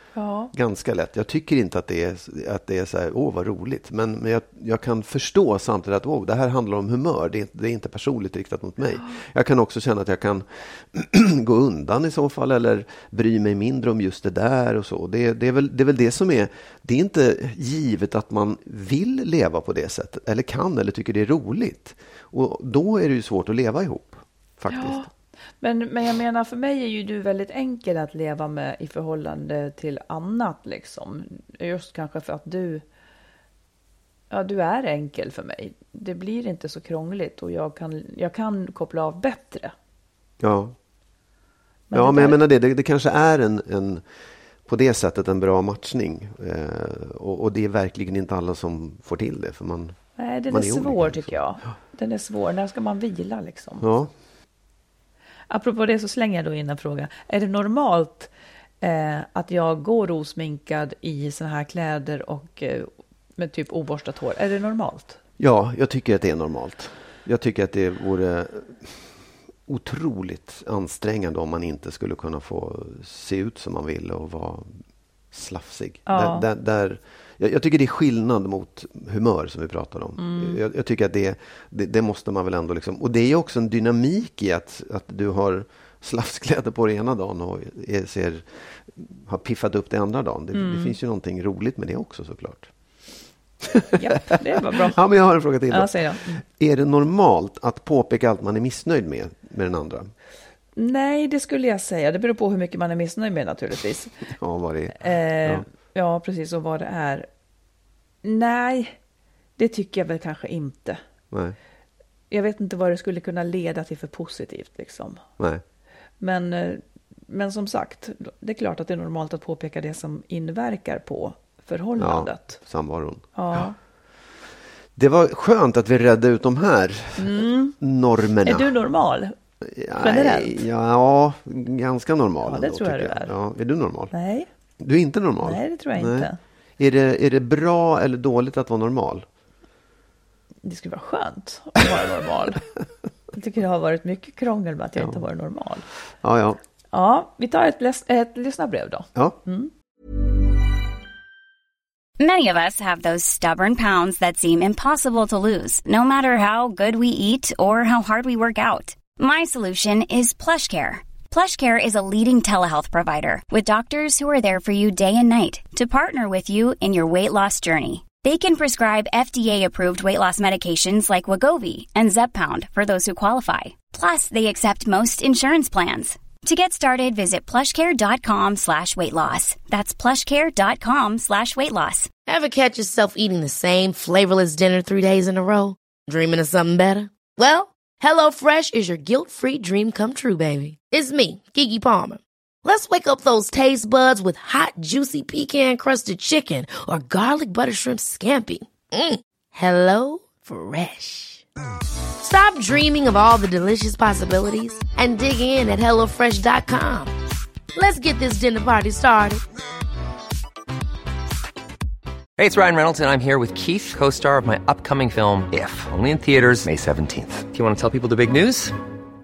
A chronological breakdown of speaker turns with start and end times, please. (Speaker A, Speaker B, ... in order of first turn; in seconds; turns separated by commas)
Speaker A: 0.1-0.5, Speaker B: 0.5-25.0, Speaker A: 24.7-25.1, Speaker A: 25.6-32.8, Speaker A: 34.3-39.7, Speaker B: 40.4-40.8, Speaker A: 41.9-42.4, Speaker B: 41.9-44.0, Speaker B: 44.6-50.0, Speaker A: 50.2-53.9, Speaker B: 50.5-51.4, Speaker B: 53.8-54.1, Speaker A: 55.5-65.2, Speaker B: 65.4-69.1, Speaker B: 69.7-74.8, Speaker B: 75.3-92.7, Speaker A: 76.1-76.4, Speaker A: 80.2-80.6, Speaker A: 90.5-91.0, Speaker B: 93.6-100.1, Speaker A: 93.9-95.0, Speaker A: 95.7-96.4, Speaker A: 100.8-104.1, Speaker B: 104.4-105.6, Speaker A: 105.0-107.3, Speaker A: 108.2-109.0, Speaker A: 109.6-111.0, Speaker B: 111.3-111.6, Speaker A: 112.3-115.2, Speaker A: 116.2-122.6, Speaker B: 122.0-123.7, Speaker A: 123.3-123.8, Speaker B: 125.0-128.7, Speaker A: 127.2-127.8, Speaker A: 128.4-129.3, Speaker B: 129.6-134.1, Speaker A: 130.0-130.6, Speaker A: 132.4-133.3, Speaker A: 134.1-134.5, Speaker B: 134.8-139.2, Speaker A: 135.4-136.4, Speaker A: 140.6-142.6, Speaker A: 143.3-145.9, Speaker B: 146.2-146.6, Speaker A: 146.9-149.7, Speaker C: 152.2-182.1, Speaker D: 182.3-201.4, Speaker D: 202.2-207.1, Speaker D: 207.7-209.4, Speaker E: 212.4-218.8